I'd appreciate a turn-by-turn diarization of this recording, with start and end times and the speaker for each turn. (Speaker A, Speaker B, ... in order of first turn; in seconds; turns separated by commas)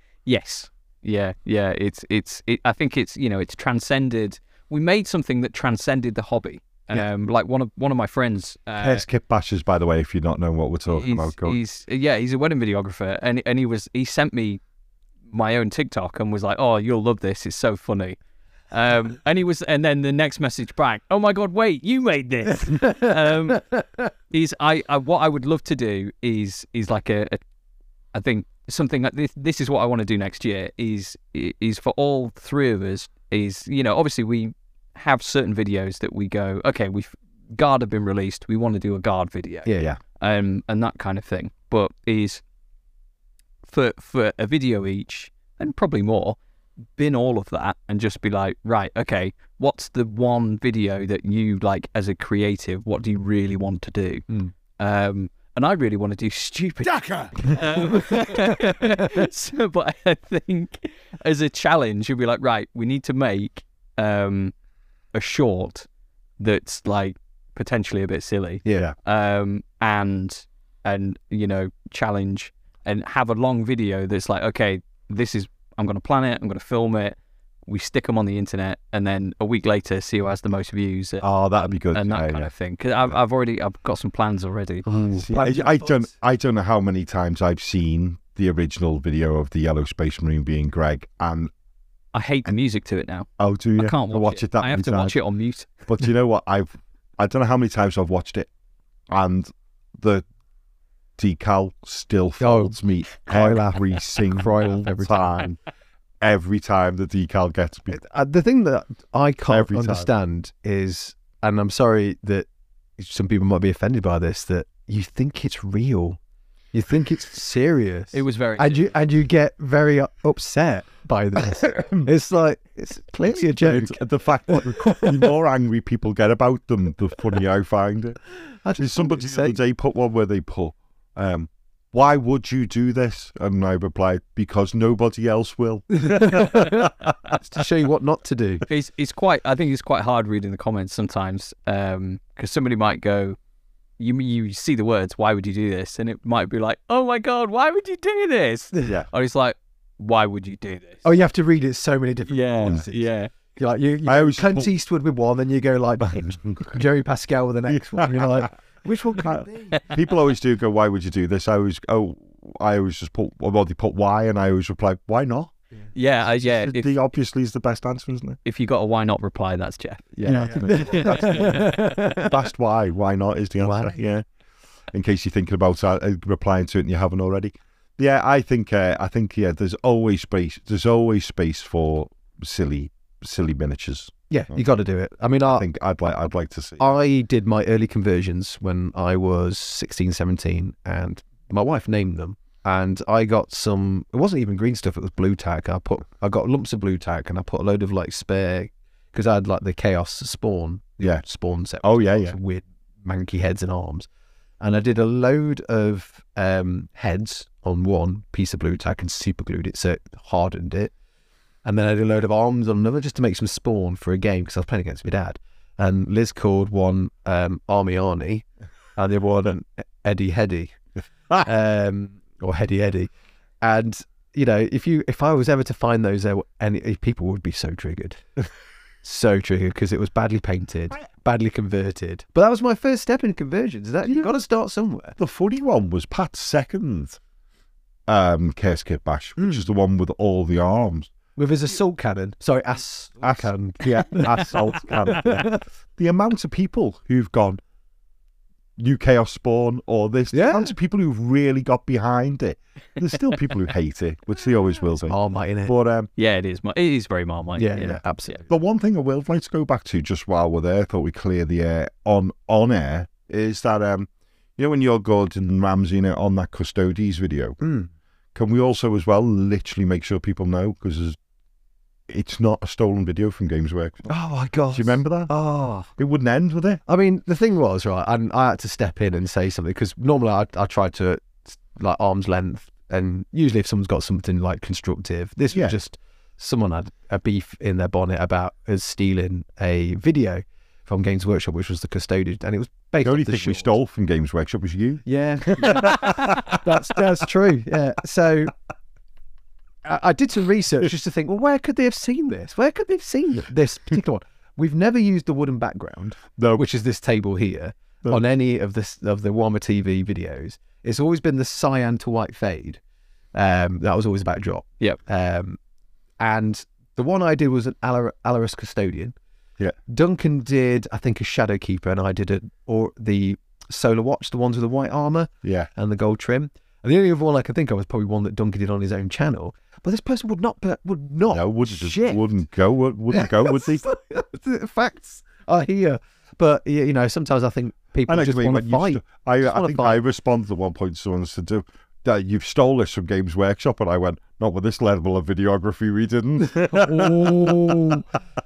Speaker A: 0.2-9.0, Speaker B: 8.8-11.6, Speaker A: 10.9-14.6, Speaker A: 15.3-18.2, Speaker A: 18.7-23.7, Speaker C: 22.6-23.8, Speaker A: 24.3-27.4, Speaker A: 28.1-42.4, Speaker C: 39.6-39.9, Speaker A: 43.6-46.4, Speaker A: 47.0-64.5, Speaker C: 56.9-59.2, Speaker A: 65.1-65.9, Speaker A: 66.4-84.8, Speaker C: 68.6-68.9, Speaker B: 81.2-82.5, Speaker C: 84.8-86.0, Speaker B: 85.1-91.5, Speaker A: 92.1-95.7, Speaker B: 93.4-95.2, Speaker B: 95.8-98.5, Speaker B: 99.1-100.2, Speaker B: 101.2-105.6, Speaker C: 102.4-102.7, Speaker C: 103.2-105.4, Speaker B: 106.2-108.0, Speaker C: 107.9-116.2, Speaker B: 109.5-110.1, Speaker C: 116.7-125.3, Speaker A: 118.1-118.9, Speaker B: 121.7-122.1, Speaker B: 123.3-128.2, Speaker C: 128.6-129.6, Speaker B: 128.8-137.3, Speaker C: 136.0-138.6, Speaker A: 138.7-143.4, Speaker A: 144.0-151.0, Speaker C: 151.0-159.7, Speaker A: 152.3-153.3, Speaker B: 154.1-154.7, Speaker B: 156.1-156.8, Speaker B: 157.7-158.5, Speaker B: 159.2-165.5, Speaker A: 165.9-166.9, Speaker B: 166.2-168.4, Speaker A: 168.4-171.6, Speaker B: 170.2-174.2, Speaker C: 170.3-172.4, Speaker C: 173.6-174.0, Speaker B: 174.9-184.6, Speaker C: 184.3-185.7, Speaker B: 185.4-186.9, Speaker C: 186.8-204.1, Speaker B: 201.8-202.3, Speaker C: 204.6-210.9, Speaker C: 211.6-220.8, Speaker C: 221.4-223.1, Speaker C: 223.6-228.2, Speaker C: 229.0-235.2, Speaker B: 235.2-237.2, Speaker B: 238.1-241.1, Speaker C: 241.3-245.6, Speaker B: 243.2-247.6, Speaker B: 248.8-256.1, Speaker C: 250.3-250.7, Speaker C: 255.1-255.7, Speaker A: 256.2-258.4, Speaker C: 257.6-258.4, Speaker B: 258.5-267.6, Speaker C: 267.6-267.9, Speaker B: 268.3-271.2, Speaker B: 272.1-274.1, Speaker C: 274.1-275.9, Speaker B: 274.7-275.3, Speaker B: 276.0-276.8, Speaker C: 276.9-293.7, Speaker B: 293.0-296.6, Speaker C: 295.1-298.5, Speaker C: 299.8-312.8, Speaker B: 306.4-306.6, Speaker C: 313.3-315.6, Speaker C: 316.2-319.1, Speaker C: 319.9-332.2, Speaker B: 325.4-325.7, Speaker B: 331.3-333.8, Speaker C: 333.1-340.0, Speaker B: 338.1-347.9, Speaker C: 346.4-348.1